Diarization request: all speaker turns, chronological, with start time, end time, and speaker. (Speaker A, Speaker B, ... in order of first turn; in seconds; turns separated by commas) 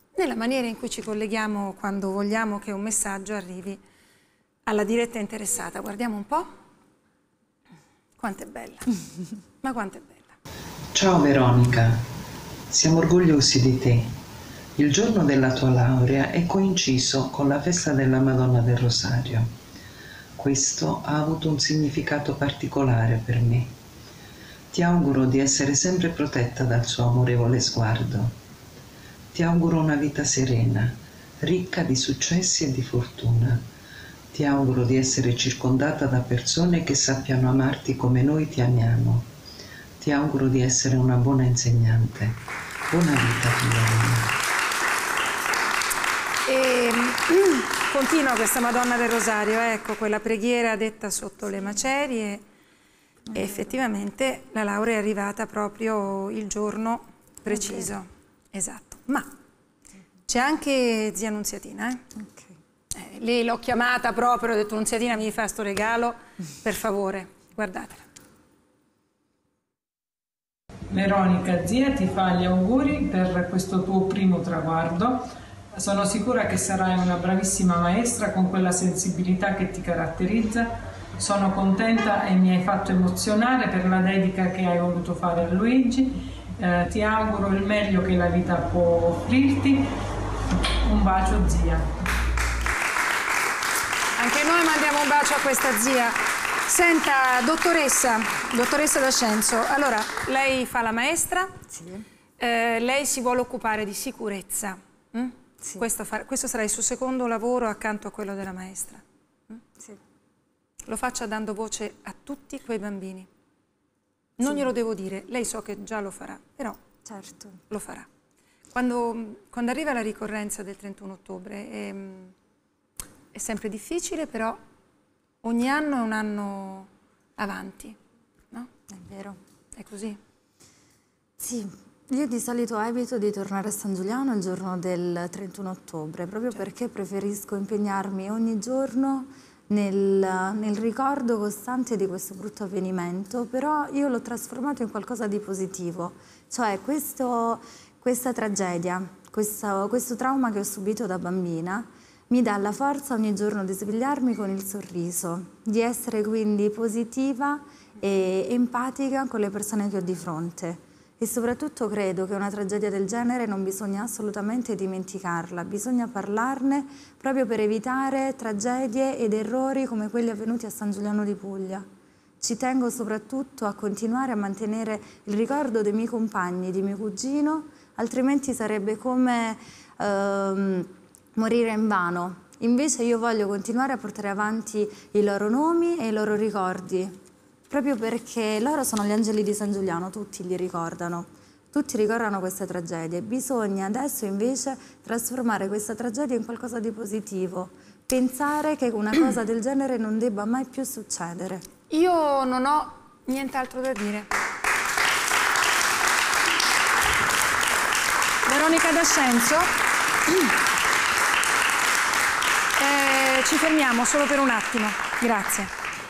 Speaker A: 0.2-3.8, Speaker A: 4.7-6.5, Speaker A: 8.2-8.9, Speaker A: 9.6-10.4, Speaker B: 10.9-12.0, Speaker B: 12.7-14.1, Speaker B: 14.8-19.4, Speaker B: 20.4-23.7, Speaker B: 24.7-28.3, Speaker B: 29.3-30.9, Speaker B: 31.4-33.6, Speaker B: 34.3-39.2, Speaker B: 40.0-42.3, Speaker B: 42.9-44.2, Speaker A: 46.5-52.4, Speaker A: 53.3-59.3, Speaker C: 57.5-57.9, Speaker A: 60.3-62.0, Speaker C: 62.1-62.6, Speaker A: 63.0-68.0, Speaker D: 70.9-75.2, Speaker D: 75.7-80.7, Speaker D: 81.2-89.9, Speaker D: 90.9-91.8, Speaker A: 94.2-101.5, Speaker C: 101.7-102.0, Speaker A: 102.4-109.0, Speaker C: 105.6-105.9, Speaker A: 110.9-113.3, Speaker A: 114.4-116.8, Speaker C: 117.0-117.6, Speaker A: 117.7-118.1, Speaker A: 118.7-122.3, Speaker A: 123.3-124.6, Speaker A: 125.4-128.0, Speaker C: 128.9-129.4, Speaker A: 129.7-130.2, Speaker C: 131.4-171.8, Speaker C: 172.4-187.2, Speaker C: 187.7-201.6, Speaker A: 201.9-204.3, Speaker A: 208.5-209.7, Speaker A: 212.8-215.8